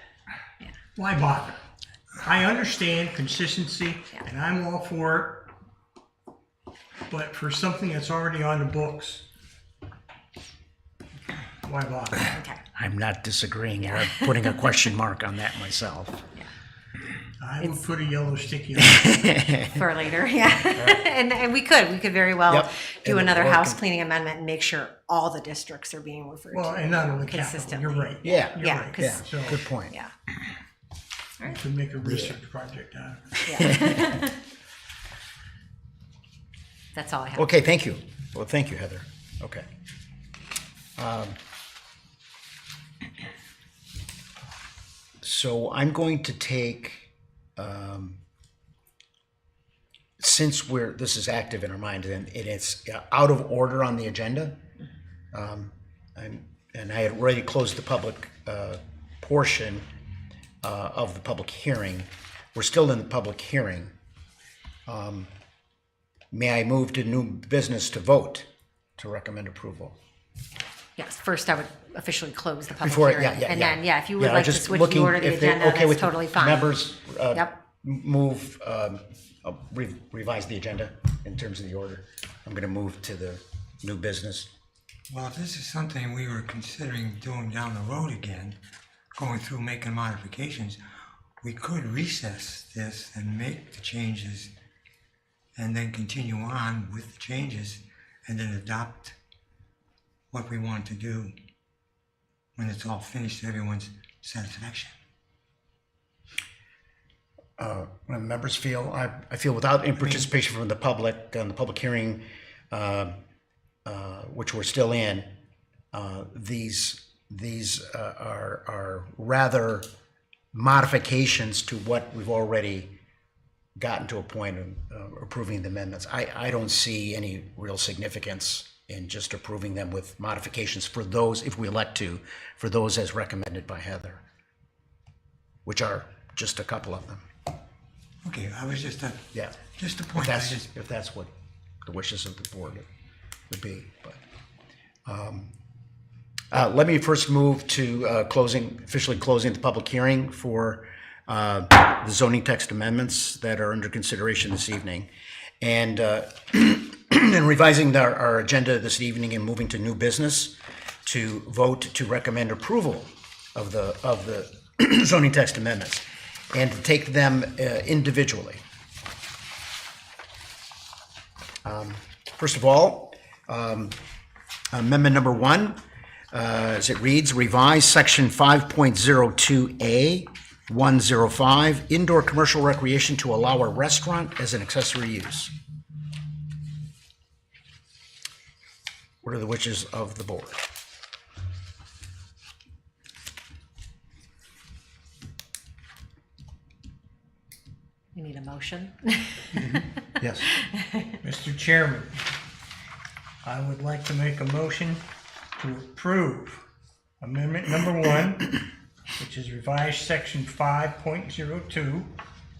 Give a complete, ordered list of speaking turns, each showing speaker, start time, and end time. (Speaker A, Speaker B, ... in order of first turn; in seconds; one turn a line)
Speaker A: 0.9-1.6
Speaker A: 2.2-5.5
Speaker A: 7.1-9.3
Speaker A: 11.6-12.3
Speaker B: 12.3-12.6
Speaker C: 12.8-16.2
Speaker A: 17.4-19.2
Speaker C: 19.0-19.8
Speaker B: 19.6-30.1
Speaker C: 22.5-23.8
Speaker A: 26.5-29.6
Speaker C: 28.2-29.9
Speaker A: 31.5-33.6
Speaker C: 32.0-32.4
Speaker B: 33.5-34.4
Speaker B: 36.9-37.5
Speaker C: 37.4-39.7
Speaker C: 41.0-41.4
Speaker C: 45.2-48.2
Speaker C: 50.2-54.6
Speaker C: 55.3-59.9
Speaker C: 60.6-63.9
Speaker C: 64.9-65.3
Speaker C: 66.3-68.5
Speaker C: 69.0-70.0
Speaker B: 71.0-76.8
Speaker C: 72.8-84.5
Speaker D: 85.1-88.6
Speaker D: 89.2-90.8
Speaker D: 91.4-94.5
Speaker D: 95.6-99.2
Speaker D: 100.3-101.3
Speaker D: 102.6-104.9
Speaker C: 107.6-113.2
Speaker C: 113.8-115.3
Speaker C: 115.9-119.9
Speaker C: 120.5-122.9
Speaker C: 123.8-134.2
Speaker C: 135.7-137.2
Speaker D: 138.2-139.2
Speaker C: 139.3-139.6
Speaker D: 139.8-140.7
Speaker C: 140.1-141.3
Speaker C: 141.8-142.9
Speaker C: 143.5-144.2
Speaker C: 145.1-145.5
Speaker C: 146.5-155.1
Speaker C: 155.6-168.6
Speaker C: 171.6-174.0
Speaker C: 174.7-175.8
Speaker C: 176.3-185.5
Speaker C: 189.2-190.6
Speaker B: 198.2-199.8
Speaker A: 199.6-199.9
Speaker C: 200.2-200.5
Speaker B: 200.5-201.2
Speaker A: 201.2-202.2
Speaker A: 203.4-205.0
Speaker A: 205.6-206.7
Speaker A: 207.2-208.6
Speaker A: 209.2-212.2